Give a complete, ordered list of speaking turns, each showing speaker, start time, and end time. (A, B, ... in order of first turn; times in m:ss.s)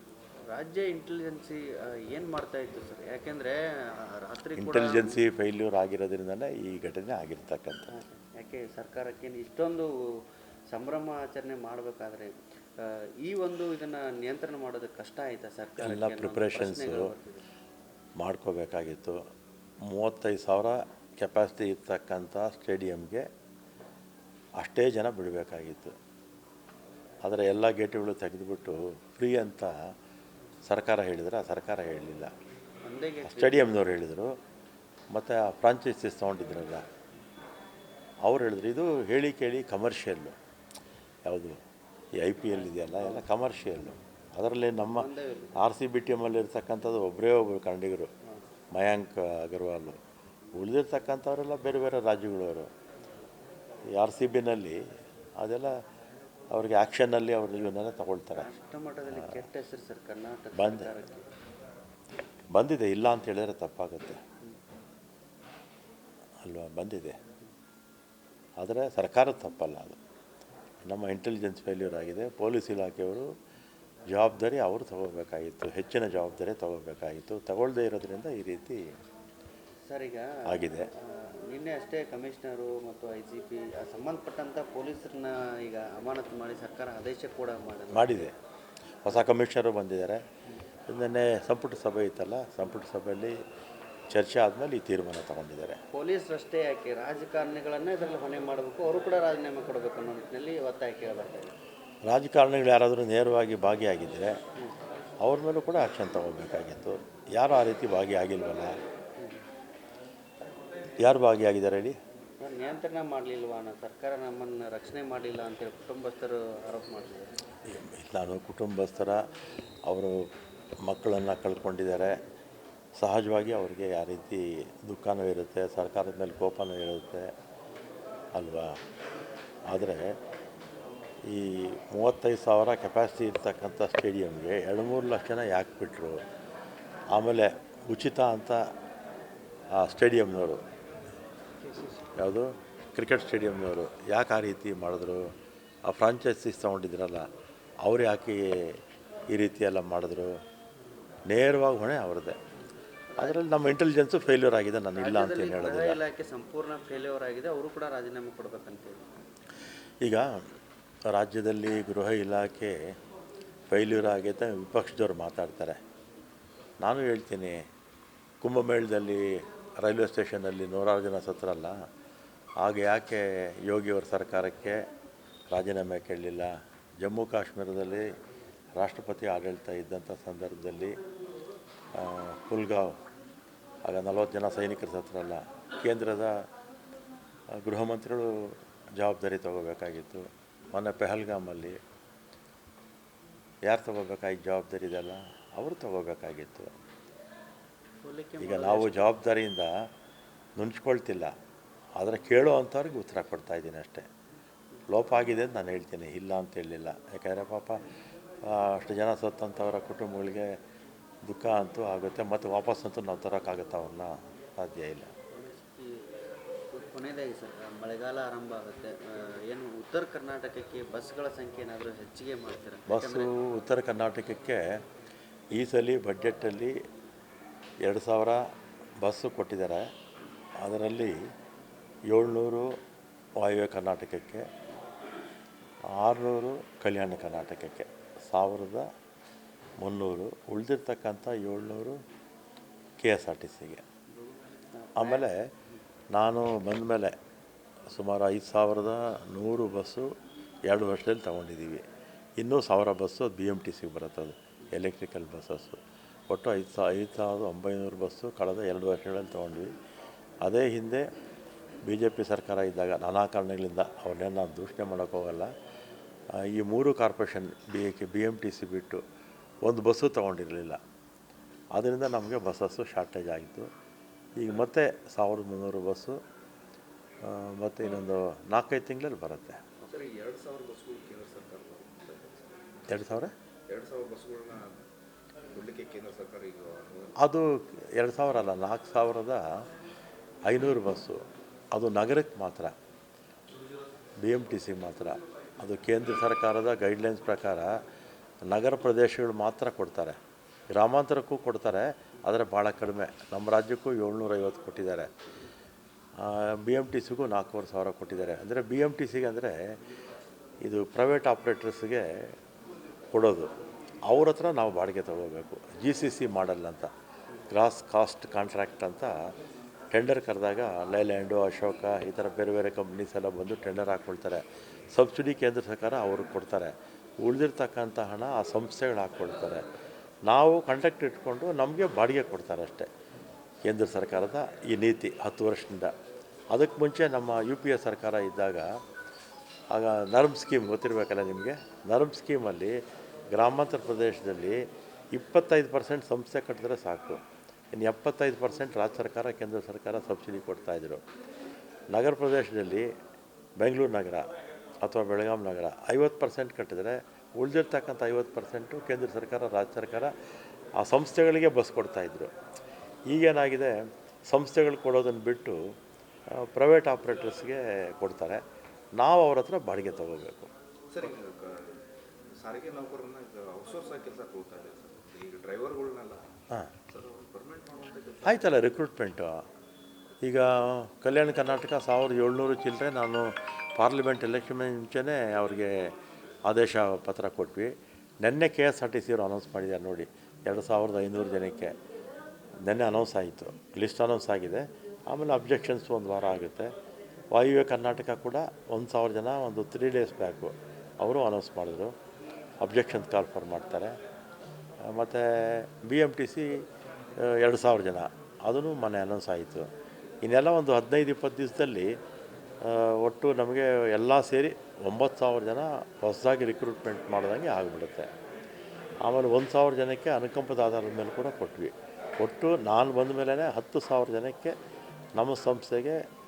0:00.4-0:05.2 A
0:04.6-0:07.9 B
0:07.9-0:17.4 A
0:15.8-0:17.1 B
0:18.2-0:19.2 B
0:19.8-0:23.3 B
0:24.6-0:26.0 B
0:27.2-0:29.7 B
0:30.6-0:32.3 B
0:32.8-0:33.8 A
0:33.2-0:34.4 B
0:35.1-0:36.8 B
0:38.2-0:40.4 B
0:41.2-0:41.6 B
0:42.2-0:48.1 B
0:42.5-0:43.3 A
0:44.8-0:45.6 A
0:48.7-0:50.0 B
0:50.5-0:52.7 B
0:53.9-0:54.8 B
0:55.4-0:55.7 B
0:56.5-0:58.5 B
0:58.3-1:01.3 A
0:59.0-0:59.4 B
1:00.5-1:00.9 B
1:02.5-1:04.2 B
1:06.4-1:07.2 B
1:08.6-1:10.0 B
1:10.8-1:13.3 B
1:14.1-1:18.8 B
1:19.9-1:28.3 A
1:20.4-1:20.9 B
1:27.9-1:28.3 B
1:29.0-1:30.2 B
1:30.9-1:33.4 B
1:34.1-1:35.8 B
1:35.9-1:41.5 A
1:42.0-1:44.4 B
1:45.2-1:48.8 B
1:49.2-1:49.4 A
1:51.0-1:52.0 B
1:52.4-1:57.4 A
1:57.6-1:59.3 B
1:59.8-2:00.3 B
2:00.8-2:02.2 B
2:03.0-2:07.3 B
2:08.3-2:08.8 B
2:09.7-2:10.2 B
2:11.2-2:16.2 B
2:17.1-2:18.7 B
2:19.7-2:20.6 B
2:22.2-2:25.3 B
2:25.8-2:27.3 B
2:27.8-2:28.8 B
2:29.3-2:30.4 B
2:31.3-2:32.4 B
2:33.1-2:33.4 A
2:33.2-2:36.0 B
2:34.9-2:39.1 A
2:40.0-2:40.5 B
2:41.1-2:42.8 B
2:43.7-2:45.8 B
2:46.8-2:47.6 B
2:48.4-2:51.8 B
2:52.6-2:54.9 B
2:55.5-2:58.1 B
2:58.8-3:01.0 B
3:01.9-3:03.0 B
3:03.8-3:06.5 B
3:07.5-3:11.8 B
3:13.6-3:16.7 B
3:18.0-3:19.1 A
3:18.4-3:19.9 B
3:20.6-3:21.3 B
3:22.0-3:24.1 B
3:24.9-3:27.8 B
3:28.4-3:30.6 B
3:31.2-3:35.1 B
3:35.3-3:36.1 A
3:36.7-3:43.3 A
3:42.9-3:44.8 B
3:45.5-3:46.8 B
3:47.8-3:48.4 B
3:49.0-3:49.9 B
3:50.6-3:51.2 B
3:52.1-3:52.8 B
3:53.4-3:54.5 B
3:55.9-3:58.9 B
3:59.8-4:02.0 B
4:03.0-4:03.8 B
4:04.2-4:05.3 A
4:05.0-4:05.5 B
4:06.1-4:07.2 B
4:07.9-4:10.1 B
4:10.7-4:11.8 B
4:12.4-4:19.7 B
4:20.4-4:21.0 B
4:21.8-4:25.5 B
4:26.4-4:29.0 B
4:29.6-4:30.8 B
4:31.7-4:33.7 B
4:34.4-4:36.2 B
4:37.2-4:39.6 B
4:39.8-4:44.8 C
4:42.9-4:43.3 B
4:45.5-4:47.2 C
4:47.2-4:49.5 B
4:50.4-4:52.7 B
4:54.2-4:57.8 B
4:58.5-5:00.2 B
5:00.7-5:05.1 B
5:06.2-5:09.7 B
5:10.6-5:12.3 B
5:13.1-5:13.5 B
5:14.1-5:16.9 B
5:17.5-5:19.1 B
5:19.9-5:29.6 B
5:30.2-5:32.9 B
5:33.7-5:35.9 B
5:36.5-5:38.7 B
5:39.7-5:42.8 B
5:43.3-5:47.2 B
5:47.7-5:51.0 B
5:51.9-5:52.9 B
5:53.6-6:00.1 B
6:00.8-6:02.3 B
6:03.1-6:05.6 B
6:06.3-6:08.4 B
6:09.0-6:10.5 B
6:10.9-6:11.8 C
6:12.3-6:16.3 C
6:16.9-6:18.7 C
6:18.2-6:19.4 B
6:20.2-6:27.7 B
6:28.2-6:31.7 B
6:32.6-6:36.7 B
6:37.3-6:41.9 B
6:42.6-6:44.0 B
6:44.8-6:46.6 B
6:47.2-6:49.7 B
6:50.2-6:52.0 B
6:52.6-6:58.1 B
6:59.0-7:04.5 B
7:05.2-7:06.0 B